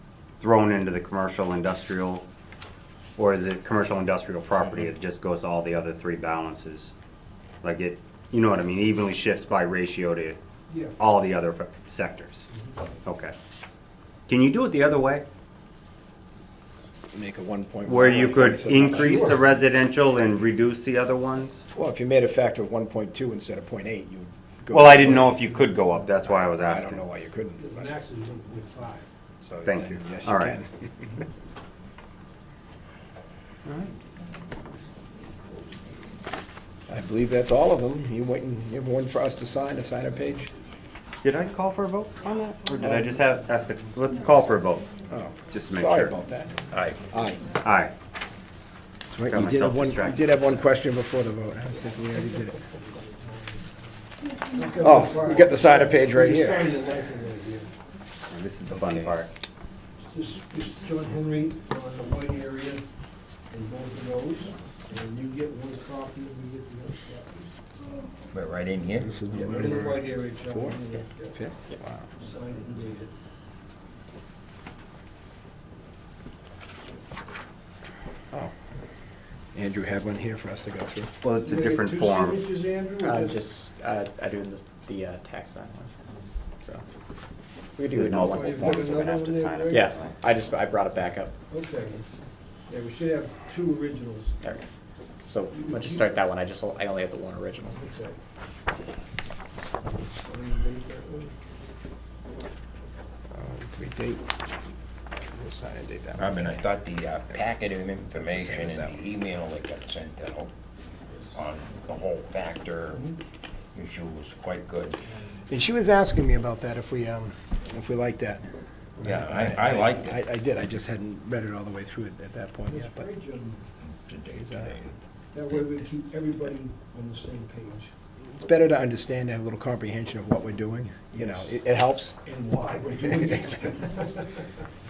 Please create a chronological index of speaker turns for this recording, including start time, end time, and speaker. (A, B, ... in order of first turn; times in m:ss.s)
0:00.4-0:02.2 A
0:03.2-0:06.9 A
0:07.6-0:10.4 A
0:10.7-0:11.0 B
0:11.0-0:12.5 A
0:13.0-0:13.4 A
0:14.3-0:15.2 A
0:17.1-0:19.5 C
0:17.9-0:21.6 A
0:18.9-0:19.3 B
0:21.7-0:25.6 C
0:24.7-0:27.1 A
0:26.2-0:27.9 C
0:27.6-0:29.1 B
0:29.4-0:31.2 C
0:29.6-0:30.6 A
0:33.7-0:33.9 A
0:36.9-0:40.5 C
0:41.2-0:44.8 A
0:42.8-0:43.2 C
0:45.1-0:47.5 C
0:45.5-0:46.2 A
0:46.7-0:47.1 D
0:47.6-0:47.9 A
0:49.1-0:52.6 C
0:49.3-0:50.6 A
0:54.5-0:57.7 B
0:54.8-0:56.7 C
0:58.3-0:59.3 A
0:58.7-0:59.1 D
1:00.1-1:02.8 B
1:03.5-1:07.5 B
1:08.3-1:09.2 D
1:09.0-1:10.8 C
1:09.3-1:11.4 B
1:11.3-1:12.0 C
1:12.2-1:13.1 B
1:19.5-1:21.1 C
1:21.2-1:22.4 A
1:21.4-1:23.4 B
1:23.0-1:25.9 E
1:27.8-1:28.9 E
1:27.9-1:30.1 A
1:28.3-1:30.0 B
1:29.7-1:32.2 E
1:31.5-1:32.0 B
1:32.7-1:34.4 B
1:35.3-1:37.9 E
1:35.5-1:36.1 B
1:37.7-1:38.2 B
1:40.0-1:41.3 B
1:43.3-1:44.4 C
1:45.3-1:46.6 C
1:46.2-1:50.5 D
1:48.2-1:49.0 C
1:51.3-1:53.1 D
1:53.7-1:55.0 D
1:55.5-1:58.4 C
1:59.0-2:03.1 C
1:59.0-2:00.2 D
2:02.7-2:03.6 B
2:03.8-2:05.0 D
2:04.4-2:04.8 C
2:05.3-2:07.9 B
2:08.2-2:12.2 C
2:11.1-2:11.5 B
2:12.2-2:14.4 B